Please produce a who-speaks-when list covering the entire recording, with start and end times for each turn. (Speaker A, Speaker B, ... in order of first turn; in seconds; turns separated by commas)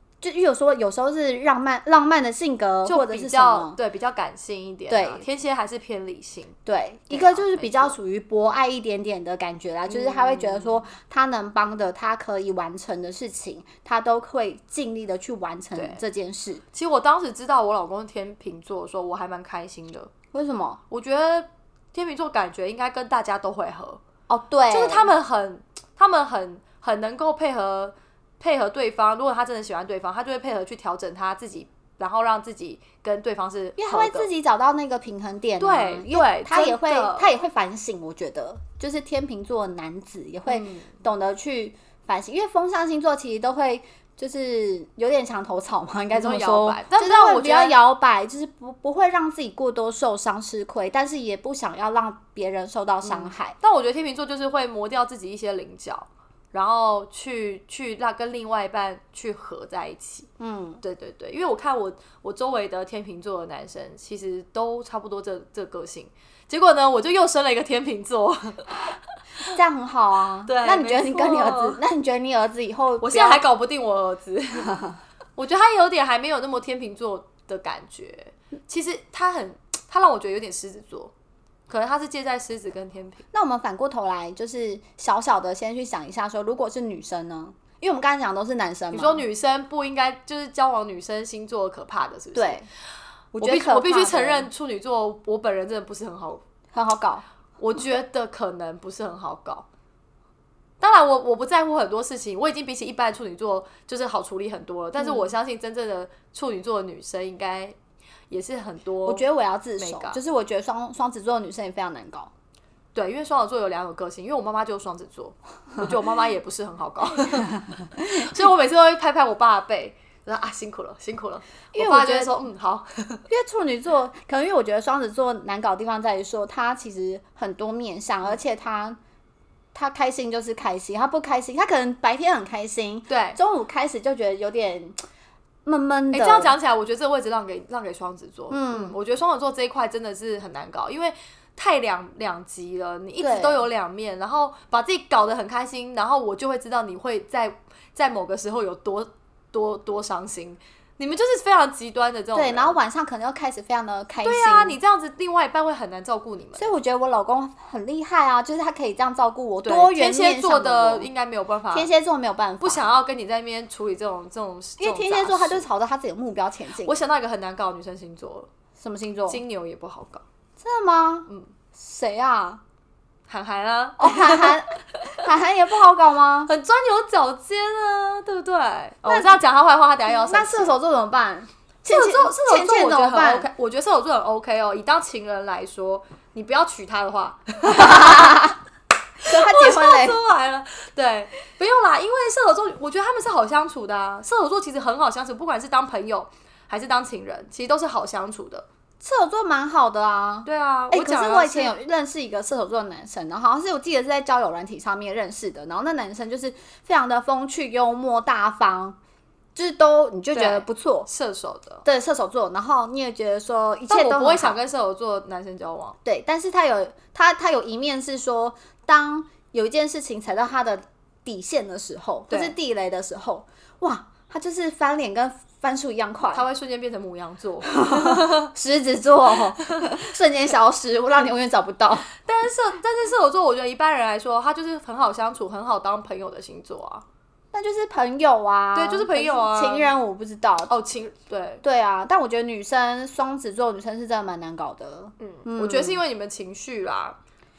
Speaker A: 0.2-3.8, Speaker B: 2.9-6.6, Speaker A: 4.9-5.2, Speaker A: 6.7-16.6, Speaker B: 7.1-8.0, Speaker B: 9.9-10.8, Speaker B: 15.8-16.0, Speaker B: 16.7-20.1, Speaker A: 20.3-20.8, Speaker B: 20.9-24.0, Speaker A: 24.3-25.1, Speaker B: 24.7-34.3, Speaker A: 33.8-53.5, Speaker B: 35.6-37.3, Speaker B: 40.5-40.9, Speaker B: 46.1-47.8, Speaker B: 53.0-60.3, Speaker A: 60.4-60.8, Speaker B: 60.8-68.9, Speaker A: 69.5-73.4, Speaker B: 70.5-71.8, Speaker B: 73.0-74.8, Speaker B: 75.4-81.1, Speaker B: 81.7-83.2, Speaker A: 83.3-89.2, Speaker B: 88.9-92.6, Speaker A: 92.3-92.7, Speaker A: 93.3-94.5, Speaker B: 93.4-96.4, Speaker A: 96.7-97.2, Speaker B: 97.6-99.7, Speaker B: 100.8-107.8, Speaker A: 105.0-105.3, Speaker B: 108.3-109.2, Speaker A: 109.0-112.3, Speaker B: 109.8-110.2, Speaker B: 113.0-123.2, Speaker A: 121.7-122.3, Speaker A: 123.3-129.0, Speaker A: 129.7-135.0, Speaker B: 133.1-133.4, Speaker A: 135.7-136.6, Speaker B: 136.1-152.8, Speaker A: 138.5-139.0, Speaker A: 143.2-143.7, Speaker A: 152.3-154.8, Speaker B: 154.2-156.7, Speaker A: 156.6-161.1, Speaker B: 159.7-161.9, Speaker A: 161.7-162.9, Speaker B: 162.6-165.7, Speaker A: 164.8-167.1, Speaker B: 166.8-168.5, Speaker A: 168.8-169.4, Speaker B: 169.3-170.2, Speaker A: 170.6-172.6, Speaker B: 173.3-174.6, Speaker A: 174.0-176.5, Speaker B: 176.5-180.7, Speaker A: 179.1-179.4, Speaker A: 180.1-183.5, Speaker B: 181.9-188.5, Speaker A: 187.7-188.6, Speaker B: 189.2-198.7, Speaker A: 189.2-190.2, Speaker A: 199.0-209.0, Speaker B: 200.4-201.8, Speaker A: 209.6-211.1, Speaker B: 210.3-211.8, Speaker A: 211.8-214.6, Speaker B: 213.9-216.0, Speaker A: 216.1-226.5, Speaker B: 222.3-222.6, Speaker B: 226.3-228.5, Speaker A: 227.7-232.1, Speaker B: 232.2-237.0, Speaker A: 237.5-240.7, Speaker B: 238.8-239.9, Speaker B: 240.7-241.6, Speaker A: 241.6-246.0, Speaker B: 245.2-247.2